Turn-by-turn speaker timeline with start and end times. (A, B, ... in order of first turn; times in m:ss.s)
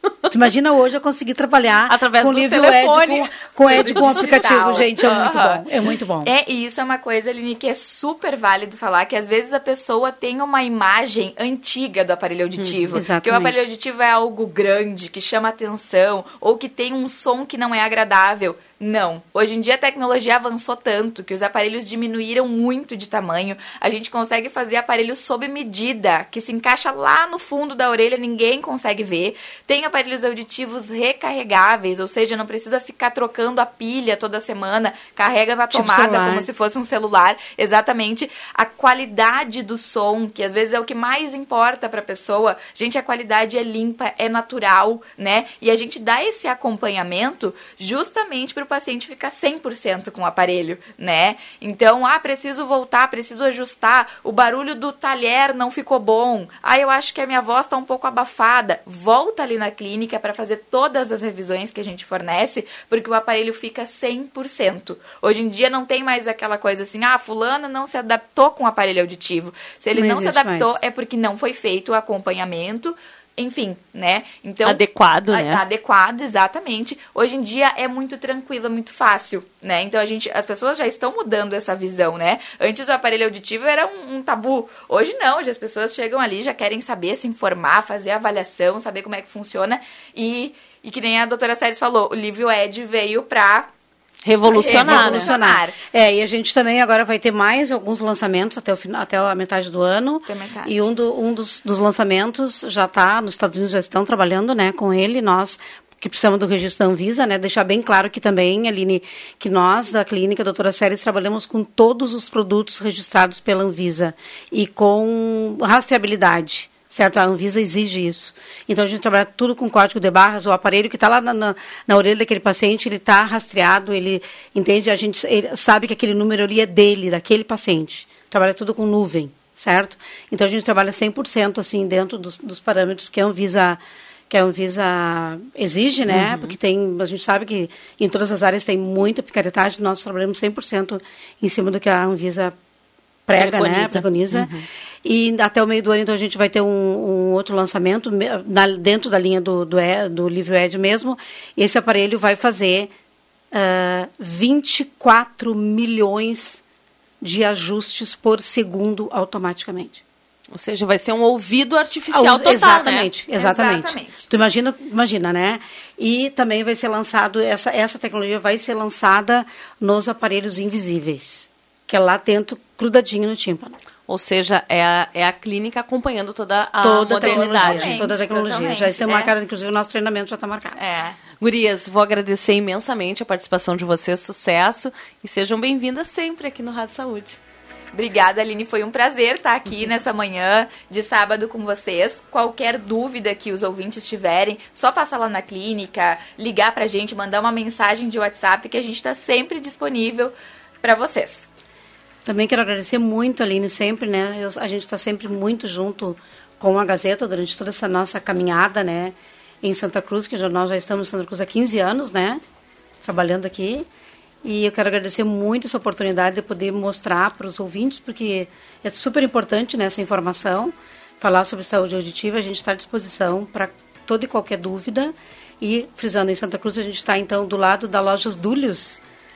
0:00.3-0:06.3 A
0:01.9-0:04.4 B
0:03.7-0:05.6 C
0:06.2-1:33.7 C
0:12.6-0:13.0 B
0:12.9-0:13.6 A
0:35.7-0:36.5 A
1:09.9-1:10.8 A
1:14.6-1:15.6 B
1:34.2-1:35.3 B
1:34.5-2:22.6 A
1:34.5-1:35.8 C
1:40.3-1:40.8 C
2:16.1-2:16.5 B
2:23.3-2:24.5 A
2:23.3-2:24.7 B
2:25.0-2:32.9 A
2:33.5-2:36.6 A
2:37.2-2:40.0 A
2:40.5-2:43.1 B
2:42.1-2:53.8 A
2:43.4-2:44.3 C
2:54.1-2:58.0 B
2:56.8-3:00.8 A
2:57.2-2:59.3 C
3:00.8-3:01.2 C
3:01.4-3:07.4 B
3:07.9-3:21.4 C
3:22.2-3:32.4 A
3:33.0-3:33.9 A
3:34.4-3:49.0 A